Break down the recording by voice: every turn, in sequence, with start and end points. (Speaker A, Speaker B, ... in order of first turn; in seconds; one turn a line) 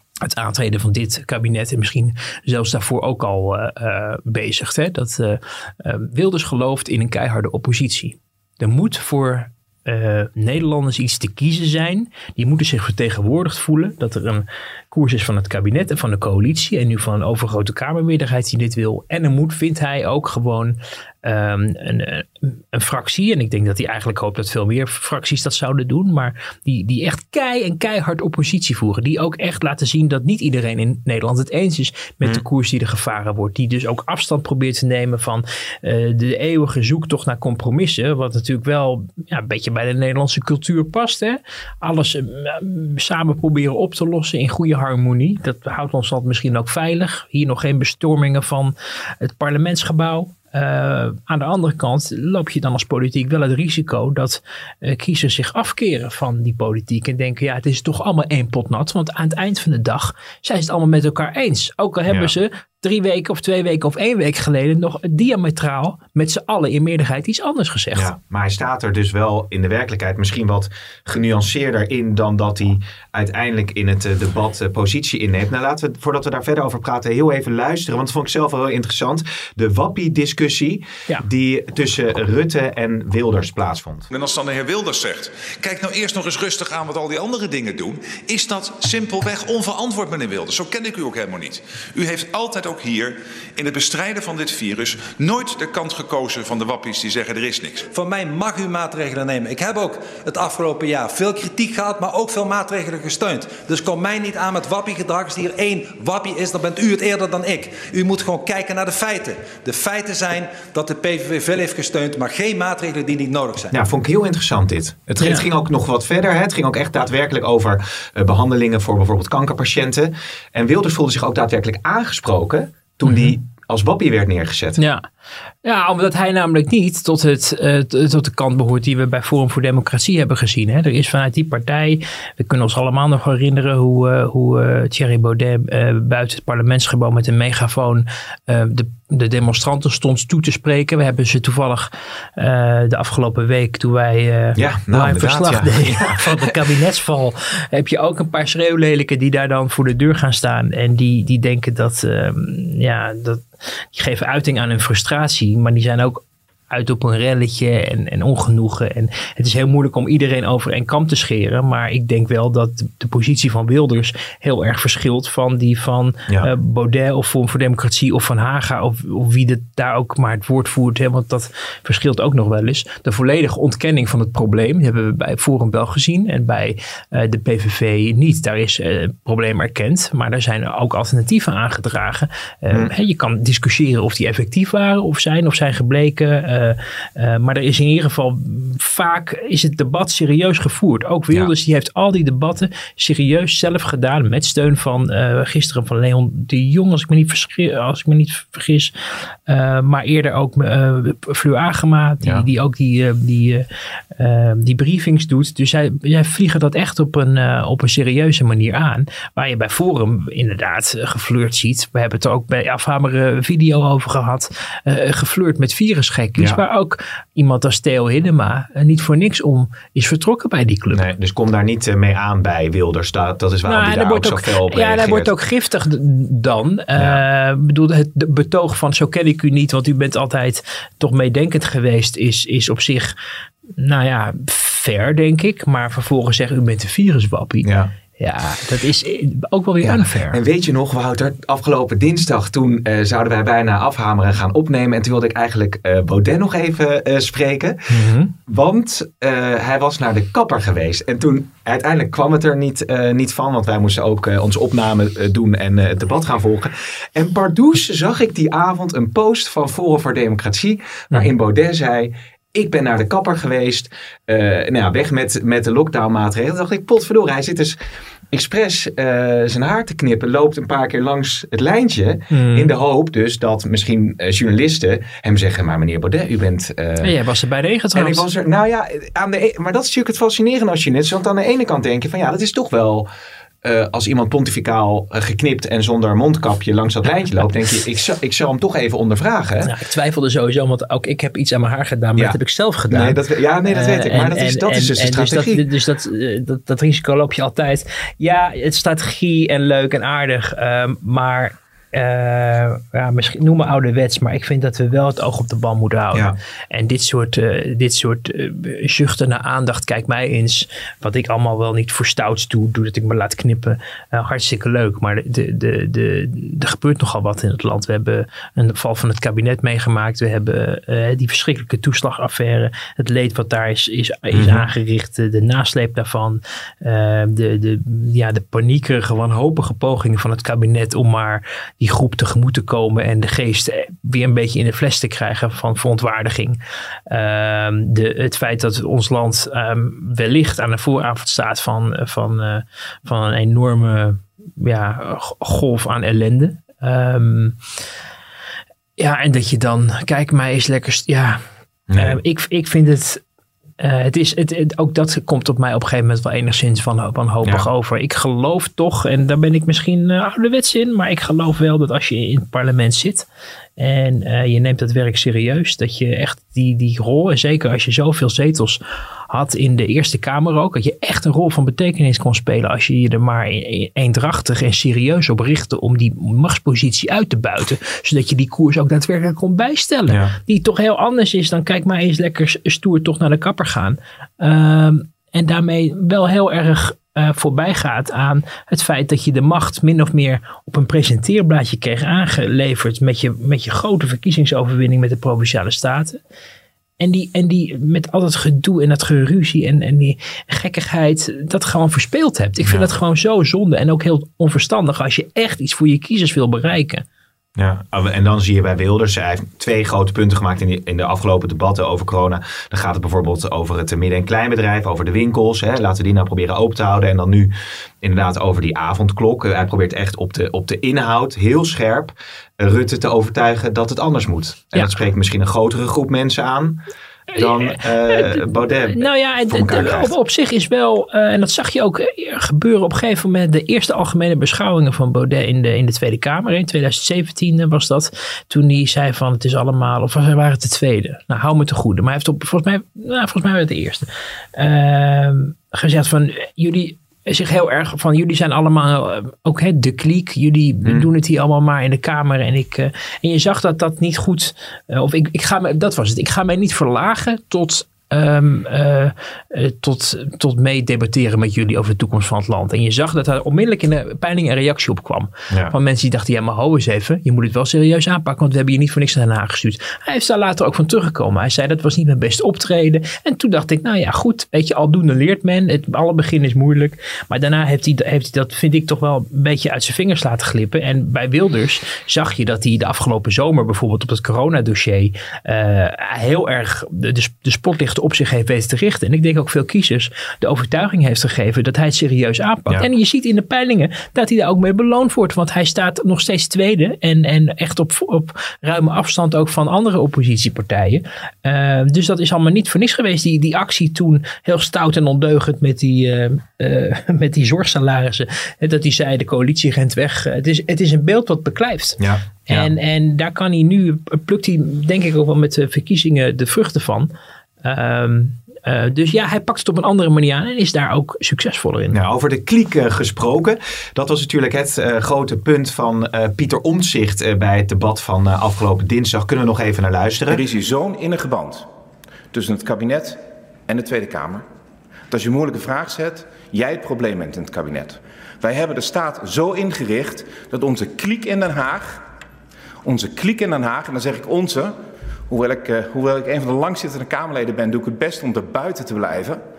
Speaker A: 0.2-68.1
Speaker B: 67.9-84.1
Speaker C: 84.1-97.9
Speaker D: 97.9-113.7
Speaker B: 113.7-124.8
Speaker A: 115.2-115.5
Speaker A: 123.1-123.3
Speaker A: 124.8-125.1
Speaker A: 125.6-198.9
Speaker B: 144.6-146.4
Speaker A: 199.5-203.7
Speaker A: 204.2-221.1
Speaker B: 220.9-225.3
Speaker A: 223.7-233.1
Speaker B: 227.0-227.2
Speaker A: 233.8-237.7
Speaker B: 237.6-237.9
Speaker A: 238.2-240.4
Speaker B: 239.8-247.8
Speaker A: 247.9-248.3
Speaker B: 248.5-267.8
Speaker B: 268.3-277.1
Speaker A: 272.3-272.7
Speaker A: 277.0-278.3
Speaker B: 277.9-283.1
Speaker B: 283.6-289.7
Speaker A: 289.6-336.6
Speaker B: 292.9-295.6
Speaker B: 324.3-324.7
Speaker A: 337.1-347.6
Speaker A: 349.0-351.4
Speaker B: 351.9-352.2
Speaker A: 352.0-353.2
Speaker A: 353.8-363.3
Speaker A: 363.8-368.8
Speaker A: 369.3-396.2
Speaker B: 380.1-380.4
Speaker A: 397.0-407.0
Speaker B: 402.6-402.9
Speaker B: 407.6-426.8
Speaker A: 427.3-517.1
Speaker B: 427.4-430.1
Speaker B: 512.0-512.7
Speaker A: 517.6-522.0
Speaker B: 521.9-530.4
Speaker E: 530.3-531.7
Speaker E: 532.3-534.5
Speaker E: 535.1-542.0
Speaker E: 542.8-544.7
Speaker E: 545.3-549.4